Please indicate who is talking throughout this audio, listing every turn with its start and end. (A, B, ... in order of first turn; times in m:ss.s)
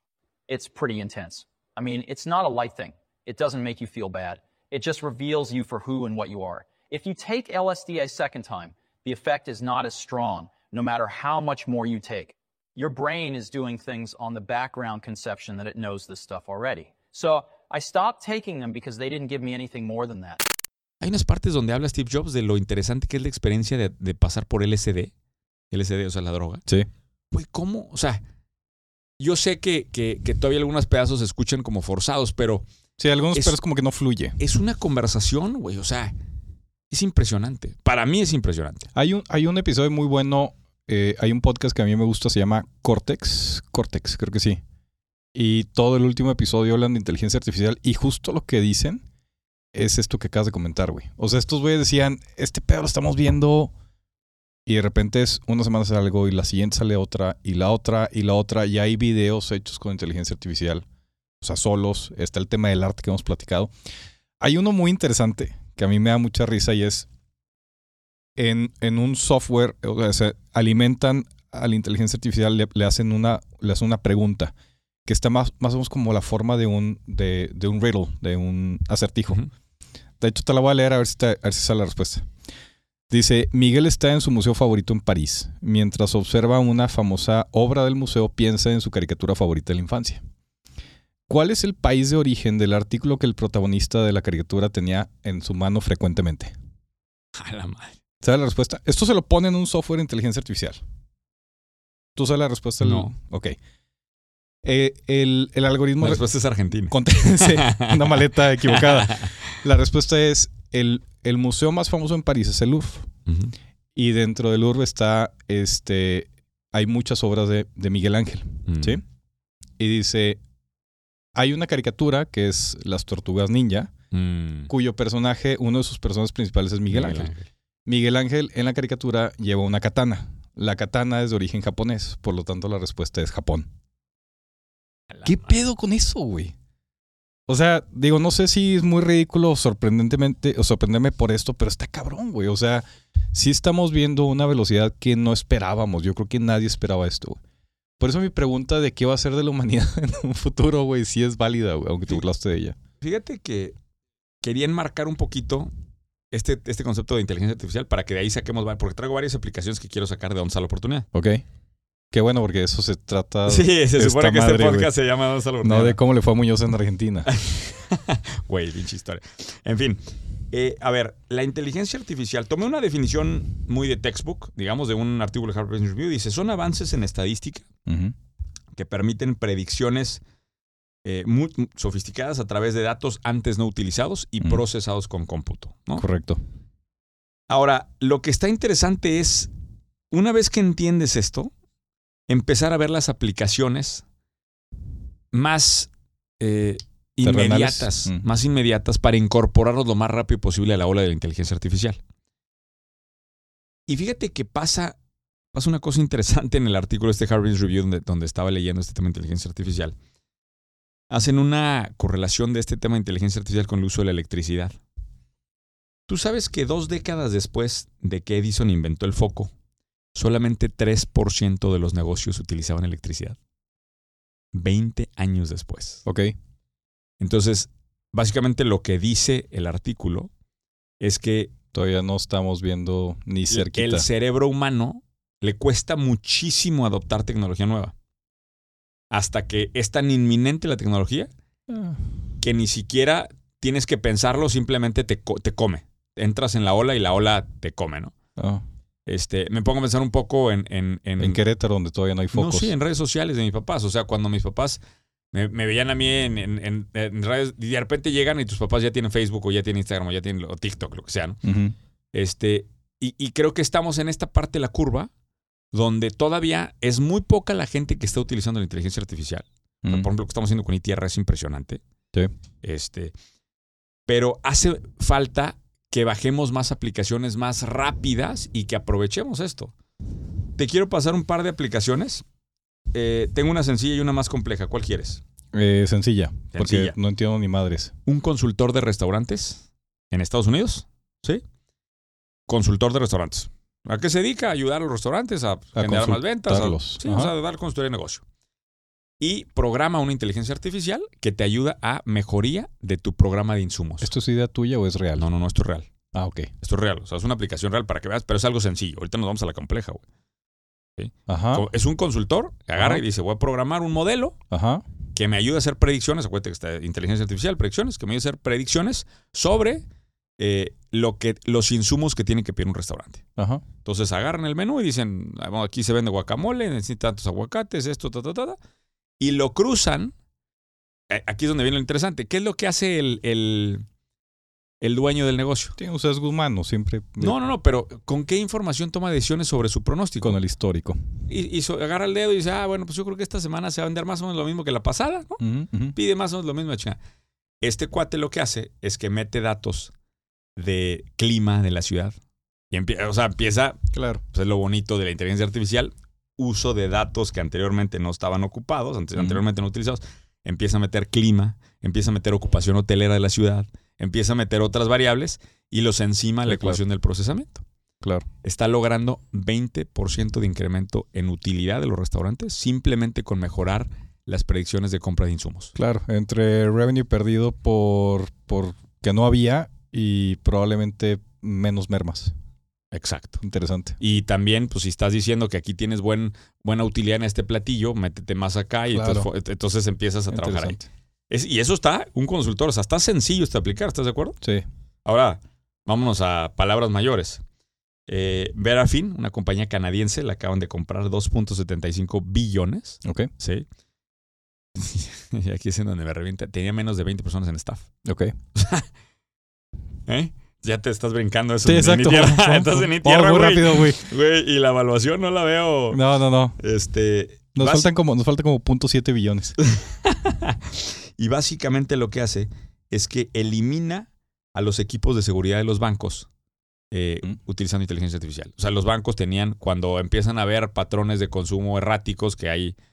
0:00.5-0:20.4 A
0:21.0-0:25.1 B
0:25.7-0:26.6 B
0:27.3-0:28.2 B
0:29.2-0:32.7 B
0:33.0-0:34.4 C
0:34.4-0:36.1 B
0:36.9-0:38.9 B
0:39.0-0:44.6 C
0:45.4-0:49.0 C
0:49.7-0:53.7 C
0:54.7-1:00.8 C
1:01.4-1:03.7 C
1:04.4-1:07.1 C
1:08.4-1:14.5 C
1:15.1-1:19.4 C
1:20.2-1:22.3 C
1:23.1-1:30.2 C
1:31.3-1:36.5 C
1:37.4-1:38.0 B
1:38.2-1:40.8 C
1:42.2-1:43.6 C
1:42.8-1:43.1 B
1:44.6-1:46.2 C
1:46.0-1:49.4 B
1:46.9-1:53.1 C
1:53.3-1:53.5 B
1:54.0-1:59.0 C
1:58.7-1:59.0 B
1:59.8-2:00.4 C
2:01.4-2:03.9 C
2:04.1-2:04.7 B
2:04.7-2:07.3 C
2:06.9-2:07.5 B
2:07.9-2:13.7 C
2:15.1-2:15.5 B
2:15.2-2:16.5 C
2:17.5-2:27.4 C
2:28.0-2:32.8 C
2:33.0-2:33.8 B
2:34.4-2:35.7 B
2:36.3-2:41.1 B
2:41.1-2:41.4 C
2:42.1-2:44.9 C
2:43.5-2:46.0 B
2:45.6-2:47.3 C
2:47.3-2:50.0 B
2:50.5-2:57.6 B
2:57.9-2:58.1 C
2:58.8-3:00.2 B
3:01.0-3:06.0 B
3:06.0-3:06.4 C
3:07.5-3:09.5 B
3:10.1-3:11.5 B
3:12.3-3:14.0 B
3:15.3-3:22.0 B
3:17.2-3:18.2 C
3:23.9-3:25.0 B
3:25.5-3:30.0 B
3:31.1-3:34.8 B
3:36.1-3:39.5 B
3:40.2-3:43.4 B
3:44.5-3:46.0 B
3:46.1-3:46.4 C
3:47.2-3:50.3 B
3:51.0-3:51.5 B
3:51.7-3:54.1 C
3:53.5-3:57.9 B
3:59.1-4:01.3 B
4:01.7-4:02.0 C
4:02.4-4:08.1 B
4:08.4-4:08.6 C
4:09.1-4:11.4 B
4:11.2-4:12.7 C
4:12.3-4:14.8 B
4:15.3-4:21.4 B
4:21.4-4:21.7 C
4:22.1-4:25.1 B
4:25.7-4:31.8 B
4:32.6-4:33.1 B
4:34.1-4:39.7 B
4:40.6-4:42.2 B
4:42.9-4:45.2 B
4:45.5-4:47.9 C
4:46.5-4:47.0 B
4:48.1-4:51.4 B
4:52.5-4:58.2 B
4:55.8-4:57.3 C
4:59.2-5:04.1 B
5:04.0-5:05.2 C
5:05.2-5:05.9 B
5:06.1-5:06.5 C
5:06.6-5:10.0 B
5:11.0-5:14.4 B
5:11.3-5:11.7 C
5:12.8-5:13.0 C
5:14.5-5:14.8 C
5:15.2-5:19.9 B
5:20.4-5:23.2 B
5:23.4-5:23.6 C
5:23.8-5:28.6 B
5:29.2-5:30.1 B
5:31.1-5:33.9 B
5:34.8-5:35.8 B
5:35.8-5:37.4 C
5:37.2-5:40.4 B
5:40.2-5:41.0 C
5:41.3-5:45.4 B
5:45.4-5:46.0 C
5:46.0-5:47.0 B
5:47.6-5:49.9 B
5:50.6-5:52.2 B
5:52.7-5:53.8 B
5:53.9-5:54.2 C
5:54.3-6:07.6 B
5:59.2-5:59.4 C
6:06.5-6:06.8 C
6:08.4-6:15.7 B
6:15.8-6:22.3 C
6:22.9-6:23.4 B
6:23.4-6:24.0 C
6:24.0-6:30.8 B
6:28.9-6:29.3 C
6:30.3-6:30.9 C
6:31.3-6:34.4 B
6:35.0-6:37.4 B
6:38.1-6:43.7 B
6:43.0-6:43.3 C
6:44.8-6:47.9 B
6:48.0-6:48.4 C
6:48.6-6:48.9 B
6:50.1-6:56.0 B
6:51.6-6:54.0 C
6:55.9-6:56.6 C
6:56.6-6:57.9 B
6:57.6-6:59.6 C
6:59.6-7:06.3 B
7:06.9-7:12.8 B